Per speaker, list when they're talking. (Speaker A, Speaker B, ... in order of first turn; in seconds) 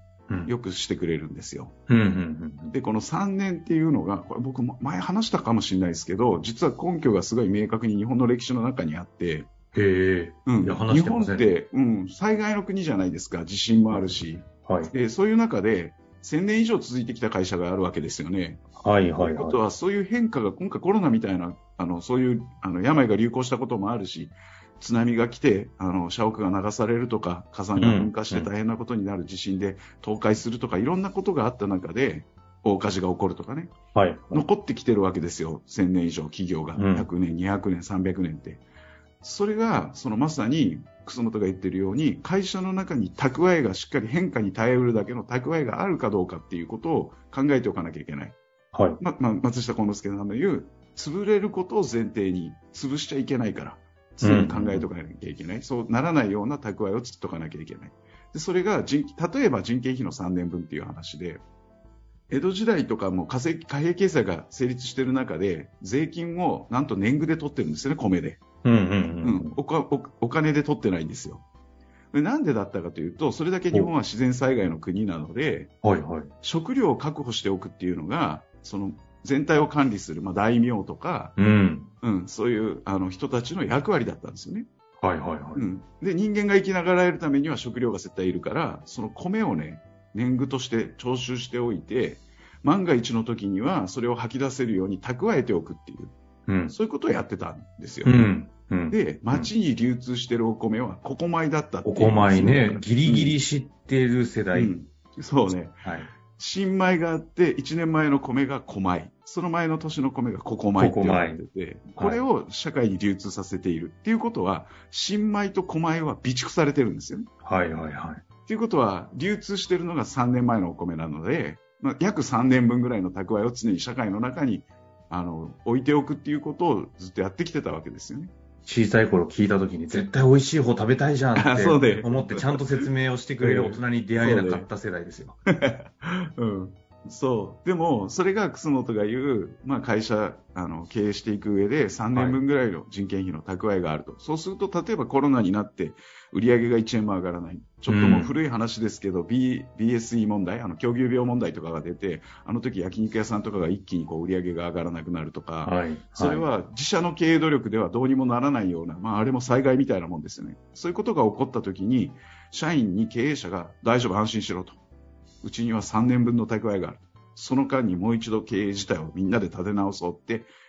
Speaker A: 0.3-0.5, 1.9-2.7, 9.7-11.6, 13.9-14.9, 18.8-19.6, 27.8-28.5, 33.9-34.4, 36.8-37.1, 48.7-49.0, 54.2-54.9, 68.6-69.5, 75.8-76.3, 81.3-81.9, 85.0-85.6, 96.5-96.7, 98.0-99.5, 101.8-104.7, 105.8-106.1, 110.8-111.4, 111.9-112.2, 117.4-118.2, 128.6-135.4, 142.1-142.4, 147.9-148.3, 155.6-156.4
Speaker B: 0.5-1.8, 2.7-9.5, 10.4-18.6, 19.2-33.7, 34.3-38.6, 39.2-48.4, 49.0-61.4, 62.3-68.4, 69.2-71.4, 72.1-75.7, 76.4-81.3, 82.0-84.7, 85.5-96.1, 96.7-98.3, 98.9-103.4, 104.5-117.3, 118.5-128.3, 131.3-132.9, 133.4-134.7, 135.5-164.8, 165.4-170.5